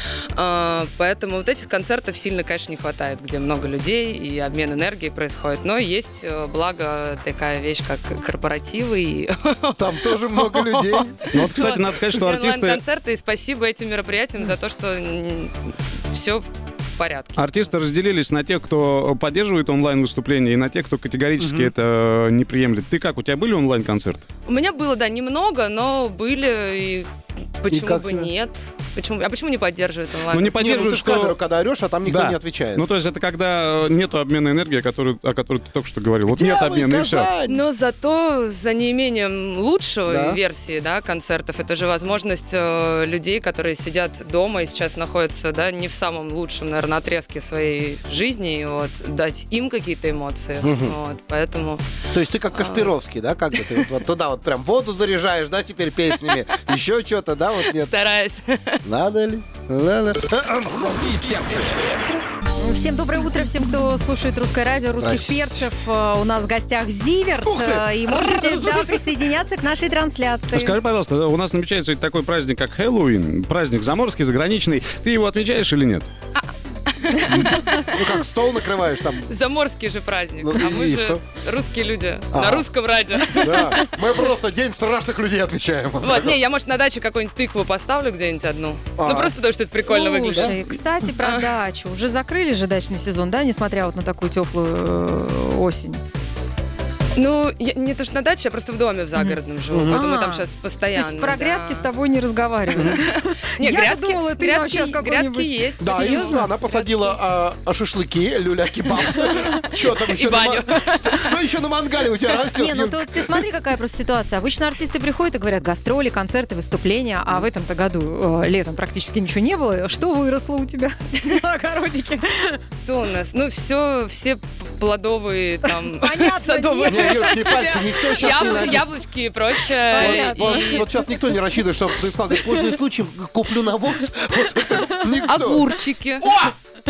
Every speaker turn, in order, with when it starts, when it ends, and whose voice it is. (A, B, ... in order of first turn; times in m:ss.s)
0:00.4-0:15.5 A
0:09.8-0:11.1 B
0:11.3-0:12.8 C
0:16.1-0:17.6 A
0:17.4-0:24.2 C
0:21.4-0:21.7 B
0:24.5-0:27.1 A
0:27.6-0:30.7 A
0:27.7-0:28.3 B
0:30.3-0:31.4 C
0:30.5-0:32.8 B
0:32.1-0:37.3 C
0:36.3-0:37.6 B
0:37.5-0:51.8 A
0:40.1-0:40.4 B
0:50.6-0:51.0 B
0:52.1-0:57.9 B
0:52.5-0:53.0 A
0:53.6-0:53.8 A
0:57.6-0:58.8 A
0:58.8-1:01.7 B
1:02.6-1:10.8 D
1:05.0-1:05.7 B
1:07.4-1:09.0 B
1:10.5-1:16.1 C
1:17.0-1:17.9 A
1:17.3-1:19.3 B
1:19.3-1:23.9 A
1:20.4-1:21.2 B
1:22.3-1:22.7 B
1:23.4-1:26.4 B
1:26.0-1:31.5 A
1:29.0-1:29.4 B
1:29.8-1:36.0 D
1:30.3-1:30.5 B
1:37.2-1:41.9 A
1:39.7-1:40.0 B
1:39.9-1:46.6 D
1:42.7-1:47.1 A
1:45.8-1:53.4 B
1:50.0-1:51.2 A
1:52.6-2:02.6 D
2:02.8-2:10.9 A
2:05.9-2:08.8 D
2:06.8-2:08.9 B
2:09.8-2:11.1 D
2:10.0-2:16.6 B
2:15.2-2:16.3 A